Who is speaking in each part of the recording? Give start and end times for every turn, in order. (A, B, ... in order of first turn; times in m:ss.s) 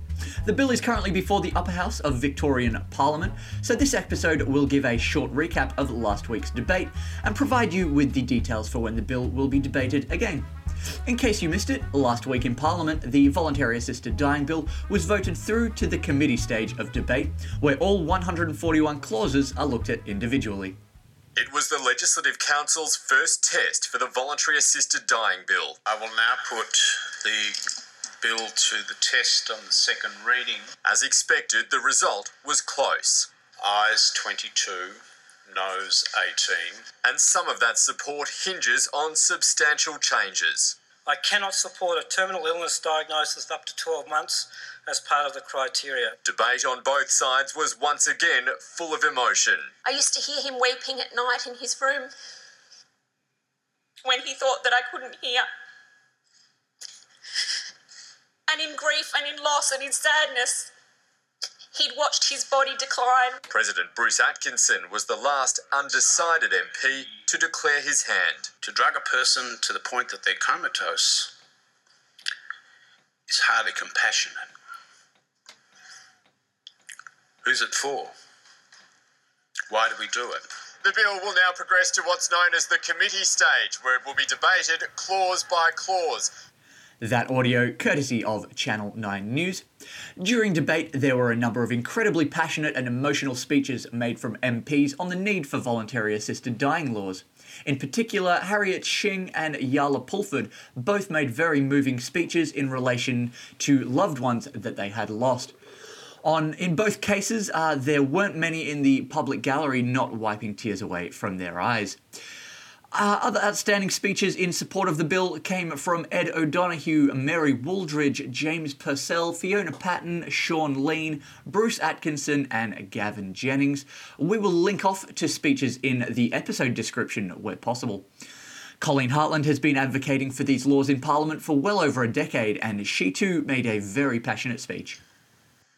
0:00.4-0:10.5 A
0:11.1-0:20.8 A
0:21.4-0:25.8 B
0:25.9-0:27.6 C
0:28.2-0:30.7 C
0:30.8-0:33.3 B
0:33.6-0:36.9 C
0:37.0-0:40.8 B
0:41.1-0:46.2 D
0:46.2-0:49.7 B
0:49.8-0:52.1 E
0:54.0-0:55.5 E
0:58.5-1:00.7 E
1:01.7-1:03.4 E
1:03.5-1:08.5 B
1:08.6-1:11.3 C
1:13.3-1:14.4 C
1:17.4-1:18.1 C
1:19.7-1:20.4 C
1:20.8-1:26.3 B
1:27.0-1:29.6 A
1:30.2-1:45.6 A
1:46.2-1:52.0 A
1:52.9-2:08.1 A
2:08.8-2:15.0 A